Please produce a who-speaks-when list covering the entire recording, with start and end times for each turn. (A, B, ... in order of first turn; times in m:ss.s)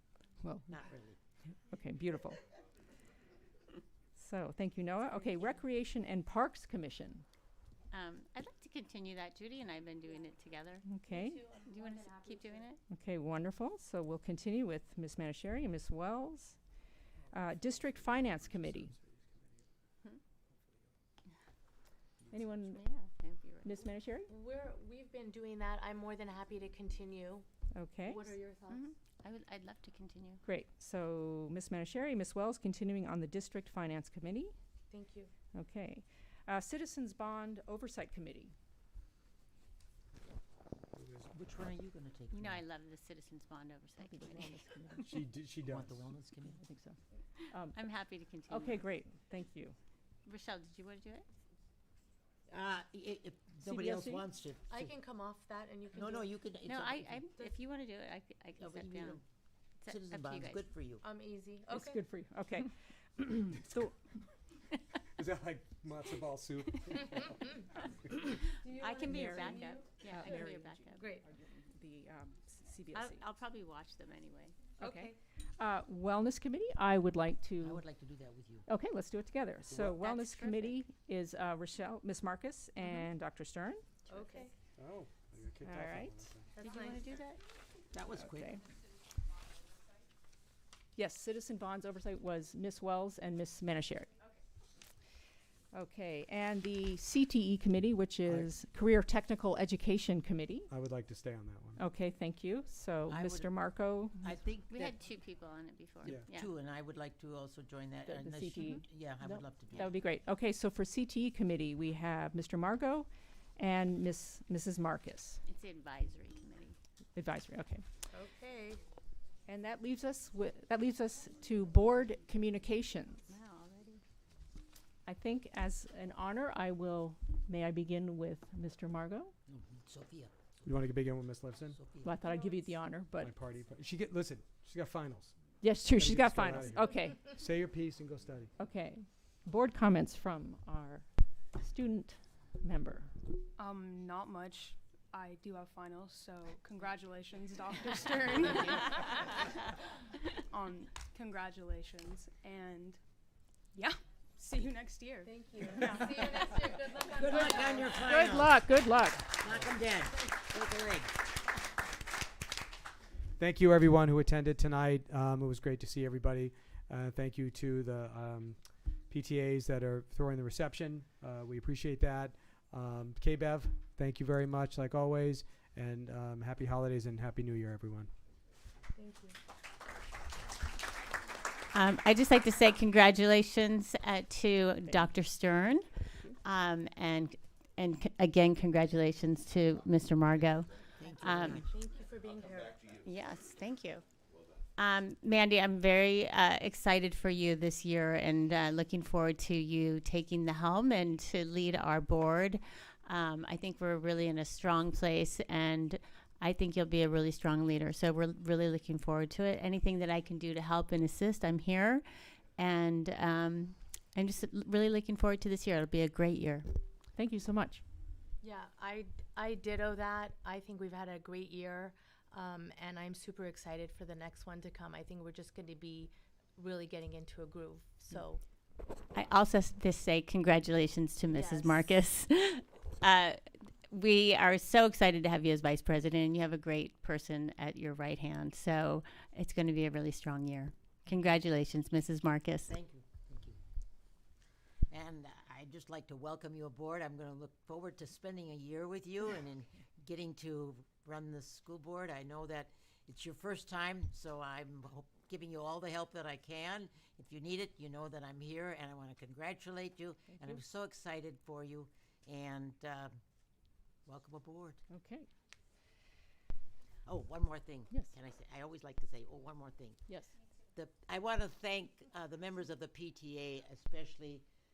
0:00.4-0:00.8 A
0:00.7-0:01.2 B
0:01.7-0:02.4 A
0:04.2-0:07.2 A
0:07.9-0:10.8 C
0:10.9-0:11.4 A
0:11.1-0:12.6 D
0:11.5-0:12.8 C
0:12.9-0:16.6 A
0:17.3-0:18.9 A
0:22.3-0:22.8 A
0:22.6-0:23.7 C
0:23.6-0:24.3 A
0:24.3-0:27.4 D
0:27.7-0:28.2 A
0:28.0-0:28.8 D
0:28.7-0:30.4 C
0:30.4-0:34.5 A
0:34.9-0:35.3 D
0:35.5-0:38.5 A
0:40.9-0:41.3 E
0:41.3-0:42.6 B
0:42.3-0:44.5 C
0:44.0-0:45.2 A
0:45.0-0:46.0 E
0:45.6-0:46.6 B
0:46.5-0:47.0 A
0:47.5-0:47.8 A
0:47.7-0:48.8 C
0:48.5-0:49.8 A
0:50.2-0:51.3 C
0:52.5-0:54.9 B
0:53.6-0:54.2 A
0:54.7-0:56.3 D
0:55.9-0:57.3 B
0:56.6-0:59.2 C
0:58.6-0:59.2 B
0:59.8-1:00.6 C
0:59.9-1:01.0 B
1:01.0-1:02.0 D
1:01.7-1:03.9 A
1:05.2-1:07.4 E
1:08.5-1:11.2 D
1:08.6-1:11.1 C
1:09.0-1:13.2 A
1:12.9-1:14.6 C
1:14.8-1:15.2 D
1:14.8-1:17.8 A
1:17.6-1:18.6 B
1:18.7-1:23.8 A
1:19.7-1:20.8 C
1:22.8-1:23.1 C
1:24.1-1:24.5 D
1:24.1-1:24.4 C
1:24.8-1:26.5 E
1:25.6-1:26.3 A
1:26.5-1:27.0 D
1:26.6-1:27.4 C
1:27.9-1:28.6 B
1:28.2-1:28.6 A
1:31.0-1:34.1 A
1:35.7-1:40.7 A
1:40.7-1:41.8 E
1:41.8-1:44.3 A
1:43.1-1:43.5 B
1:44.2-1:45.0 B
1:44.7-1:46.5 C
1:46.2-1:50.0 B
1:48.0-1:55.4 A
1:55.4-1:56.8 C
1:57.1-1:57.8 A
1:58.1-1:58.8 D
1:59.5-2:03.2 A
2:03.3-2:04.0 C
2:05.0-2:09.3 A
2:09.5-2:10.3 B
2:10.6-2:11.8 E
2:11.7-2:12.2 B
2:12.0-2:13.3 A
2:13.2-2:15.4 E
2:15.6-2:17.3 A
2:15.9-2:18.5 E
2:18.6-2:21.1 A
2:21.6-2:23.1 A
2:23.6-2:29.5 F
2:30.2-2:33.0 F
2:33.7-2:36.0 F
2:35.2-2:38.2 D
2:37.1-2:38.6 B
2:38.0-2:39.3 A
2:39.4-2:41.1 B
2:43.4-2:58.1 E
2:59.0-2:59.4 D
3:01.7-3:05.9 C
3:06.4-3:11.6 C
3:11.0-3:11.7 B
3:11.5-3:12.9 D
3:13.0-3:14.0 C
3:14.8-3:32.0 C
3:32.6-3:36.7 C
3:37.1-3:37.8 A
3:38.4-3:48.4 D
3:49.1-4:02.7 C
3:51.3-3:51.9 D
4:02.6-4:03.6 B
4:04.9-4:23.2 B
4:24.0-4:24.8 B
4:24.9-4:25.3 A
4:27.1-4:30.0 B
4:30.1-4:30.4 A
4:30.7-4:34.4 B